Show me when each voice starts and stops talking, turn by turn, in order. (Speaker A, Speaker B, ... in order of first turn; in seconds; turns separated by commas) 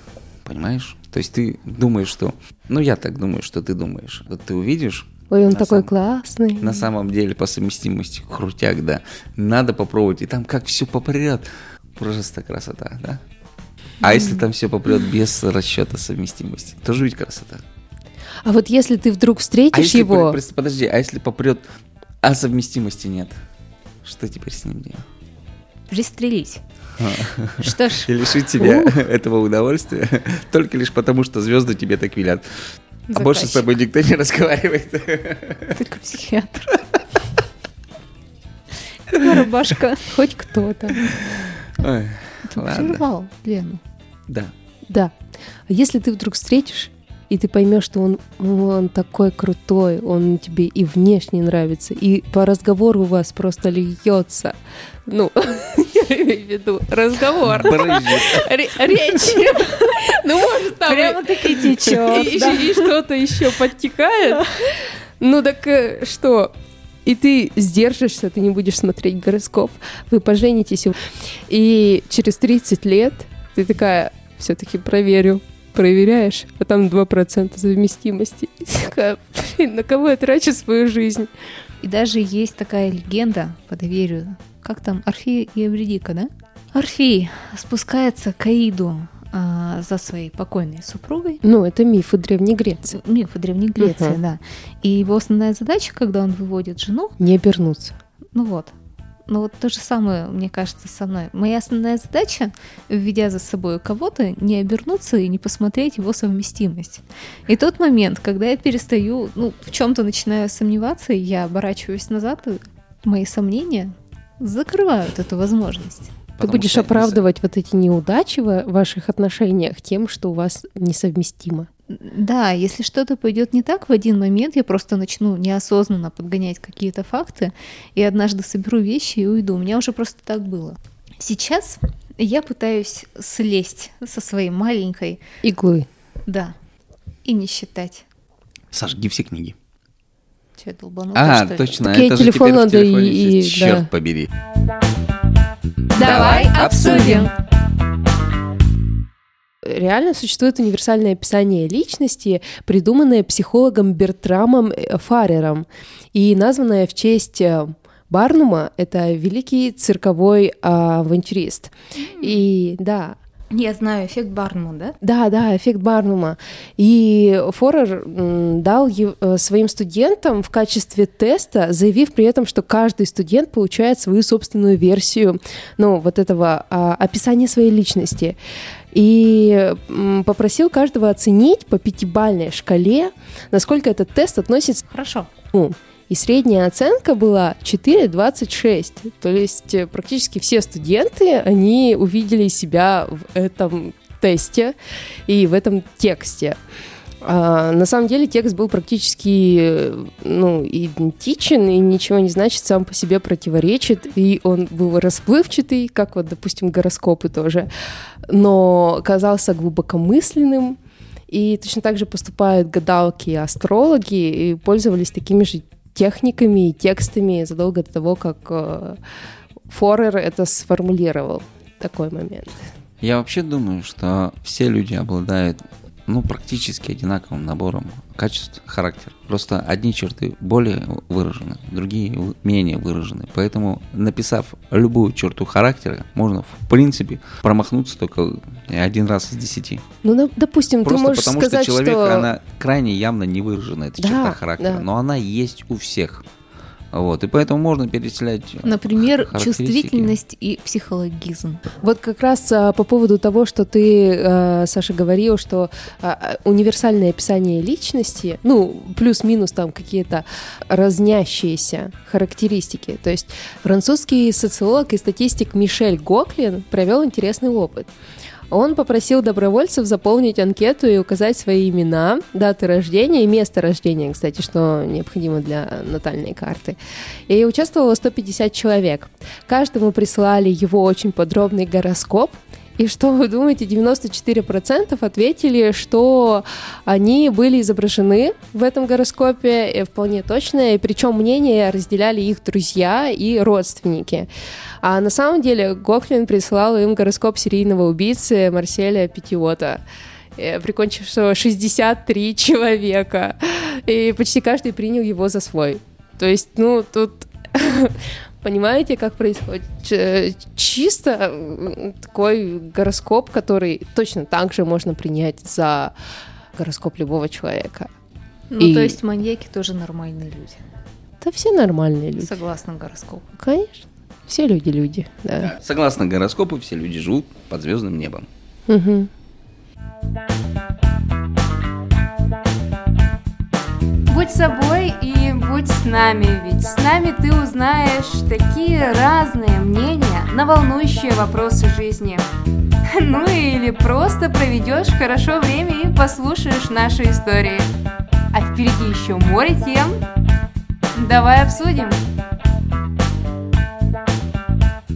Speaker A: 0.4-5.9, Speaker B: 5.3-6.9, Speaker A: 6.6-13.2, Speaker A: 14.0-17.6, Speaker C: 14.0-14.4, Speaker B: 18.4-20.4, Speaker A: 19.7-21.6, Speaker A: 22.2-23.3, Speaker A: 24.0-25.0, Speaker C: 25.9-26.6, Speaker A: 27.0-32.4, Speaker C: 27.6-28.1, Speaker B: 28.6-29.0, Speaker C: 33.1-33.7, Speaker A: 33.1-35.8, Speaker C: 35.7-36.8, Speaker C: 39.1-40.3, Speaker B: 40.1-41.0, Speaker A: 41.8-43.0, Speaker C: 42.5-43.8, Speaker B: 44.9-45.1, Speaker B: 45.7-66.5, Speaker A: 57.5-58.5, Speaker C: 60.8-62.9, Speaker B: 67.0-81.3, Speaker C: 81.8-91.4, Speaker B: 91.4-93.0, Speaker C: 92.9-97.2, Speaker B: 93.8-94.2, Speaker B: 97.2-97.9, Speaker C: 98.3-98.7, Speaker C: 99.3-116.1, Speaker A: 116.4-117.2, Speaker B: 116.4-121.7, Speaker C: 121.9-135.2, Speaker B: 135.4-135.9, Speaker C: 136.3-136.5, Speaker C: 137.2-138.1, Speaker A: 138.7-139.5, Speaker C: 140.6-141.8, Speaker A: 141.1-144.3, Speaker B: 141.8-143.9, Speaker A: 145.9-147.3, Speaker D: 145.9-147.3, Speaker B: 149.6-163.2, Speaker C: 161.9-162.4, Speaker C: 163.5-164.9, Speaker B: 165.0-178.4, Speaker B: 178.9-184.8, Speaker C: 184.9-185.3, Speaker B: 185.5-194.8, Speaker B: 195.3-196.6, Speaker B: 197.2-207.7, Speaker B: 208.3-210.8, Speaker B: 211.3-219.0, Speaker B: 219.7-222.6, Speaker A: 223.0-239.8, Speaker B: 240.0-242.3, Speaker A: 240.8-246.2, Speaker B: 244.0-244.8, Speaker A: 246.9-250.2, Speaker C: 248.6-251.6, Speaker B: 251.8-267.9, Speaker B: 268.5-276.8, Speaker B: 277.3-294.3, Speaker B: 294.8-299.8, Speaker B: 300.4-315.9, Speaker B: 316.6-317.9, Speaker C: 318.5-320.6, Speaker B: 318.6-319.0, Speaker B: 321.2-322.4, Speaker C: 322.2-323.3, Speaker B: 323.4-325.5, Speaker A: 325.5-328.3, Speaker B: 328.7-329.1, Speaker D: 334.1-342.2, Speaker D: 342.9-347.7, Speaker D: 348.3-350.0, Speaker D: 350.9-352.0